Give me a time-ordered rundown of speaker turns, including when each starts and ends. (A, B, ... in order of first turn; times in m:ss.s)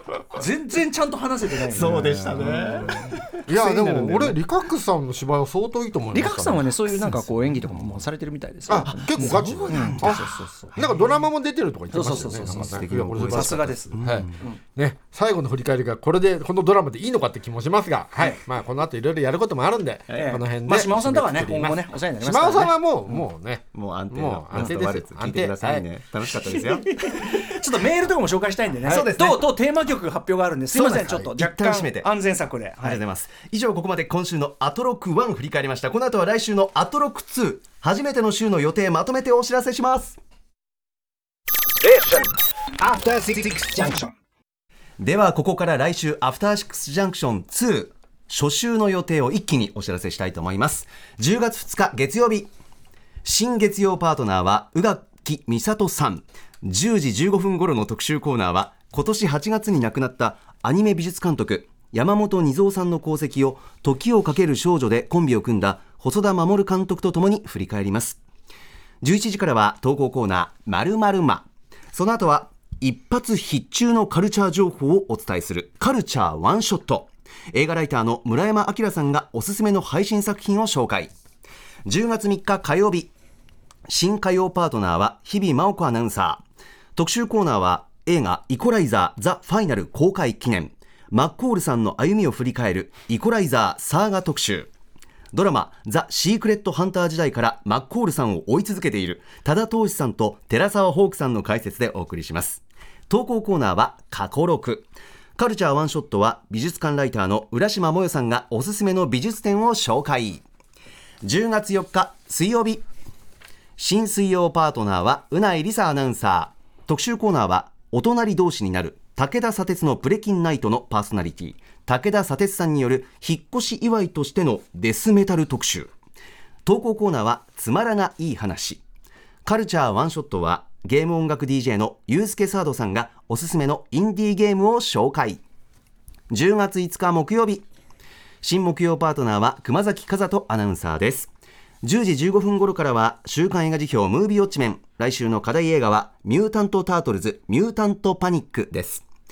0:00.3-0:03.1 A
0:01.7-0:04.4 B
0:01.9-0:02.5 C
0:03.5-0:06.7 C
0:06.1-0:10.7 A
0:08.7-0:25.9 C
0:08.9-0:11.0 B
0:11.9-0:14.6 A
0:12.4-0:14.4 B
0:20.1-0:22.7 A
0:23.7-0:27.0 B
0:26.9-0:33.0 A
0:28.9-0:29.4 B
0:30.7-0:32.1 B
0:32.8-0:40.2 B
0:42.8-0:44.0 B
0:45.0-0:52.5 B
0:53.2-1:08.2 B
1:09.0-1:21.1 B
1:21.9-1:23.1 B
1:23.9-1:26.4 B
1:27.0-1:34.7 B
1:35.3-1:50.4 B
1:51.2-1:52.8 B
1:53.8-2:05.9 B
2:06.6-2:08.8 B
2:09.4-2:15.4 B
2:16.3-2:17.6 B
2:18.4-2:29.0 B